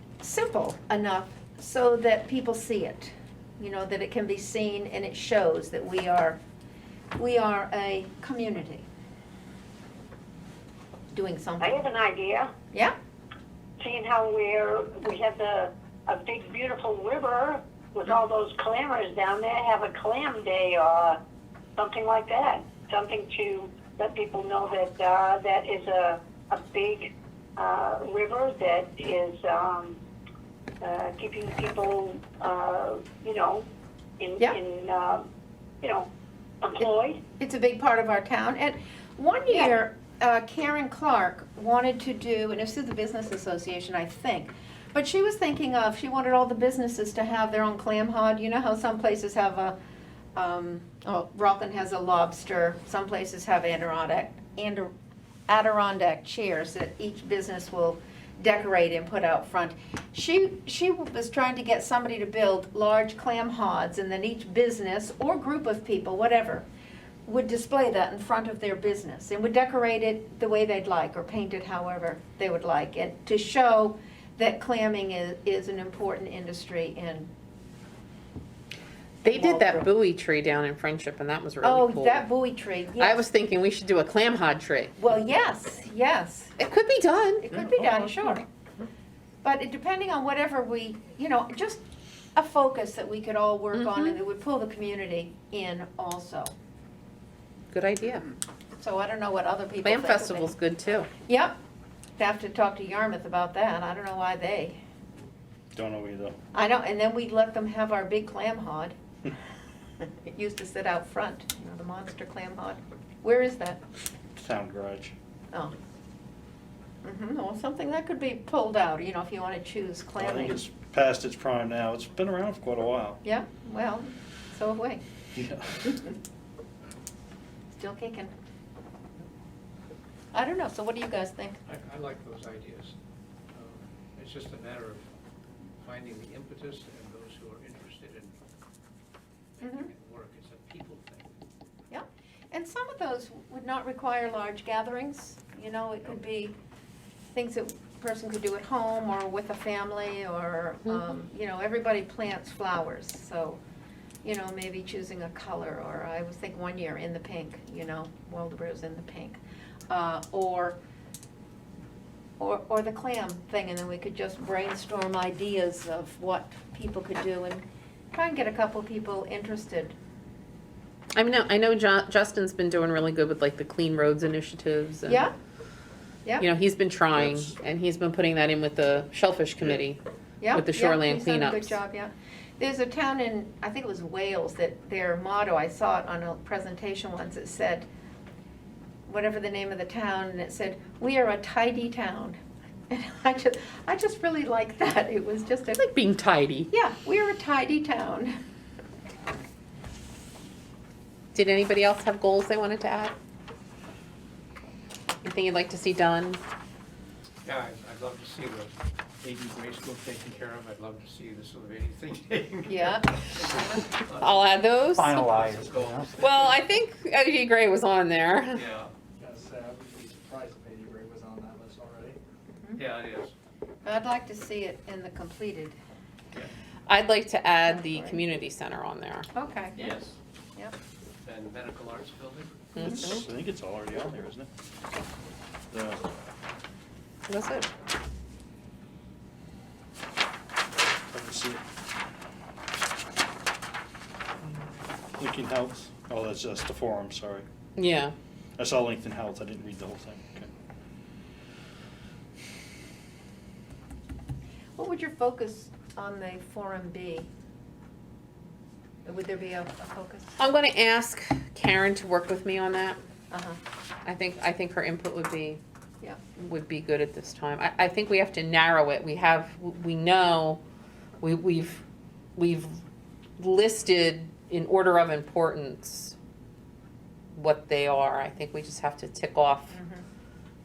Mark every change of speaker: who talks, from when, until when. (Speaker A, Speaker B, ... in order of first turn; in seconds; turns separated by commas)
Speaker A: 0.2-6.4, Speaker A: 7.2-8.9, Speaker A: 11.1-11.8, Speaker B: 11.6-12.5, Speaker B: 13.8-21.2, Speaker B: 21.8-30.0, Speaker B: 30.8-33.6, Speaker B: 34.2-35.2, Speaker B: 35.8-36.1, Speaker B: 36.6-37.2, Speaker A: 37.4-49.8, Speaker A: 50.4-54.9, Speaker A: 55.5-66.7, Speaker A: 67.2-77.3, Speaker A: 79.2-79.9, Speaker C: 79.2-82.2, Speaker A: 81.6-83.2, Speaker C: 83.0-84.9, Speaker A: 85.0-86.6, Speaker C: 86.6-88.3, Speaker A: 87.4-88.4, Speaker A: 89.4-91.8, Speaker A: 92.3-96.5, Speaker C: 93.7-94.1, Speaker C: 97.7-98.2, Speaker A: 98.8-100.5, Speaker C: 99.8-101.1, Speaker A: 101.2-101.6, Speaker A: 102.2-104.8, Speaker D: 105.7-106.3, Speaker A: 106.5-108.9, Speaker A: 110.0-113.8, Speaker D: 114.4-115.1, Speaker A: 117.0-120.6, Speaker D: 120.2-123.2, Speaker A: 123.2-125.0, Speaker D: 125.3-125.9, Speaker A: 127.8-128.3, Speaker A: 130.3-131.6, Speaker E: 131.6-132.9, Speaker E: 133.5-135.1, Speaker E: 135.8-138.3, Speaker E: 139.6-141.3, Speaker A: 139.6-139.9, Speaker A: 141.9-146.6, Speaker A: 147.3-153.6, Speaker A: 154.2-160.8, Speaker A: 162.4-169.9, Speaker C: 171.1-175.3, Speaker A: 175.1-175.3, Speaker C: 176.4-180.0, Speaker D: 177.1-177.5, Speaker A: 180.4-187.9, Speaker C: 180.5-181.7, Speaker A: 189.1-192.4, Speaker A: 192.9-195.8, Speaker C: 195.8-196.7, Speaker A: 196.7-198.3, Speaker C: 201.3-203.1, Speaker C: 205.2-206.4, Speaker E: 207.4-216.7, Speaker A: 212.7-213.7, Speaker C: 214.2-215.2, Speaker D: 215.0-216.1, Speaker C: 216.2-218.6, Speaker E: 218.5-218.9, Speaker F: 219.2-222.2, Speaker E: 222.7-223.3, Speaker A: 223.8-225.8, Speaker C: 226.9-229.3, Speaker A: 227.7-228.2, Speaker A: 229.3-229.9, Speaker E: 229.8-230.1, Speaker E: 231.2-232.7, Speaker C: 232.8-233.3, Speaker D: 232.8-234.5, Speaker D: 235.7-236.0, Speaker C: 237.3-237.7, Speaker D: 241.1-241.6, Speaker D: 245.2-247.4, Speaker C: 247.8-248.1, Speaker D: 248.6-250.5, Speaker A: 254.8-257.3, Speaker A: 259.0-260.4, Speaker C: 260.4-263.0, Speaker A: 263.3-263.6, Speaker C: 264.0-265.6, Speaker C: 266.4-270.6, Speaker C: 271.2-271.8, Speaker C: 272.4-272.8, Speaker C: 273.4-276.1, Speaker C: 277.3-279.7, Speaker A: 279.7-280.0